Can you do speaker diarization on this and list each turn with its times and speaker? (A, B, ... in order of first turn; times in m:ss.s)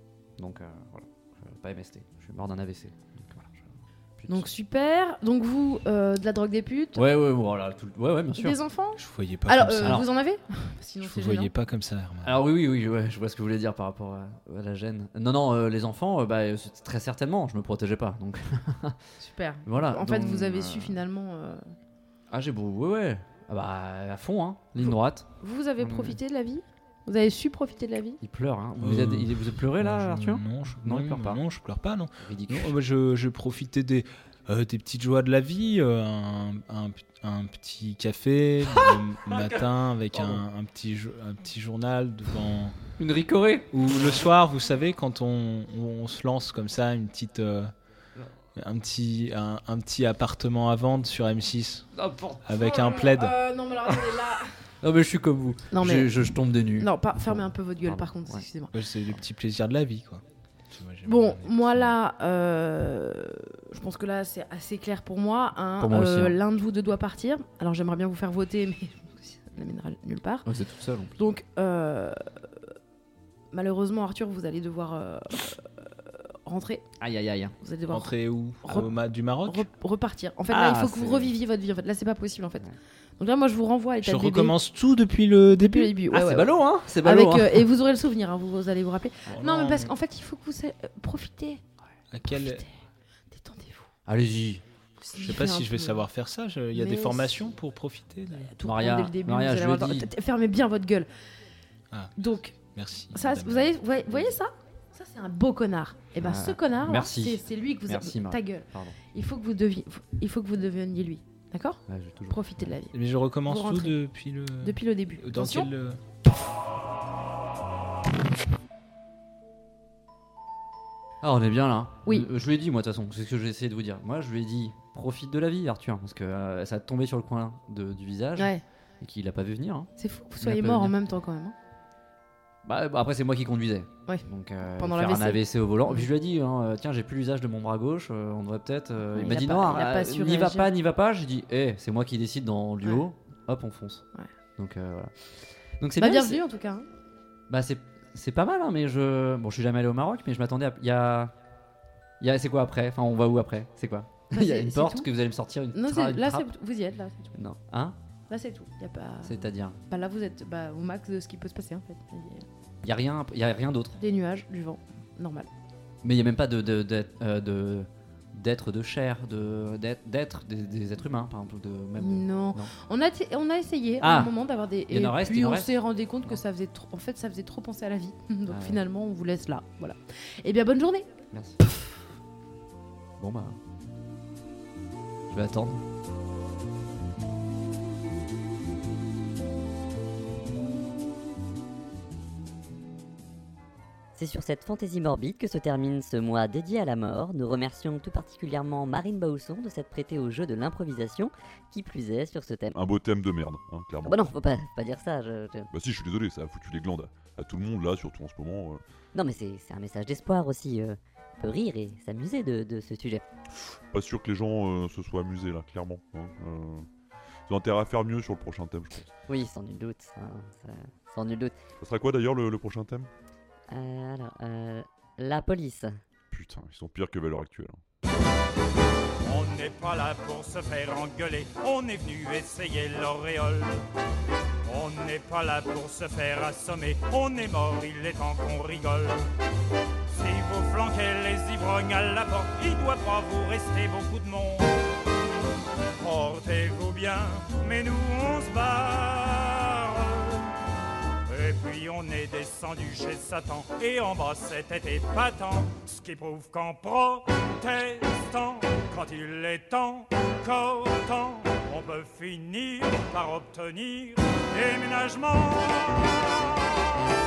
0:00.4-0:04.5 A
0:04.3-0:07.0 B
0:07.0-0:08.6 A
0:08.4-0:11.5 B
0:09.0-0:10.1 C
0:09.8-0:10.1 A
0:11.0-0:12.4 C
0:12.2-0:19.0 A
0:19.2-0:21.6 B
0:19.7-0:21.0 A
0:22.3-0:26.2 A
0:24.8-0:28.2 B
0:28.2-0:31.4 A
0:28.8-0:42.8 C
0:32.2-0:32.8 A
0:38.6-0:40.4 A
0:43.0-0:44.2 A
0:43.7-0:47.7 C
0:48.6-0:51.9 C
0:52.0-0:53.1 A
0:52.4-0:53.4 C
0:52.6-0:54.5 B
0:53.8-0:58.4 A
0:55.7-0:56.1 B
0:56.8-0:58.7 B
0:58.7-1:01.9 C
1:01.1-1:10.5 B
1:05.8-1:06.4 A
1:10.4-1:11.2 A
1:11.2-1:12.3 B
1:13.5-1:16.8 B
1:17.0-1:17.6 A
1:17.6-1:22.6 B
1:17.9-1:19.7 C
1:20.5-1:21.4 A
1:23.2-1:24.6 B
1:24.0-1:25.9 C
1:25.5-1:31.6 B
1:26.1-1:27.7 A
1:29.3-1:29.9 C
1:32.1-1:32.6 C
1:32.3-1:32.7 B
1:33.3-1:33.9 B
1:34.1-1:34.6 A
1:35.0-1:36.0 B
1:35.2-1:38.5 C
1:36.7-1:37.4 B
1:38.4-1:41.1 B
1:38.6-1:40.1 A
1:41.9-1:43.8 C
1:42.2-1:42.6 B
1:43.1-1:54.0 B
1:44.1-1:44.3 A
1:46.2-1:49.0 A
1:51.9-1:52.8 A
1:52.9-1:56.0 C
1:54.6-1:55.7 B
2:01.2-2:11.0 A
2:08.4-2:08.6 B
2:10.0-2:11.6 B
2:12.6-2:24.0 A
2:14.1-2:16.1 B
2:19.0-2:20.7 B
2:24.6-2:26.4 A
2:26.0-2:26.9 B
2:27.5-2:31.3 A
2:32.2-2:36.5 A
2:34.3-2:35.1 B
2:35.7-2:37.3 B
2:37.3-2:38.0 A
2:38.3-2:42.5 B
2:39.2-2:39.8 A
2:42.8-2:44.0 A
2:44.0-2:45.5 B
2:46.0-2:52.7 A
2:52.0-3:01.1 B
2:54.0-2:54.3 A
2:54.9-2:56.4 A
2:58.5-2:58.8 A
3:01.3-3:01.6 A
3:03.2-3:03.6 A
3:05.3-3:05.8 A
3:14.2-3:22.8 D
3:22.7-3:24.4 E
3:24.0-3:25.7 D
3:25.7-3:28.8 E
3:29.1-3:33.2 D
3:33.6-3:36.9 E
3:37.5-3:39.1 E
3:39.3-3:41.6 D
3:41.8-3:43.1 E
3:43.7-3:46.0 D
3:46.3-3:47.8 E
3:49.2-3:53.9 F
3:54.6-3:59.2 F
4:00.1-4:04.8 F
4:06.0-4:10.6 F
4:11.3-4:27.0 F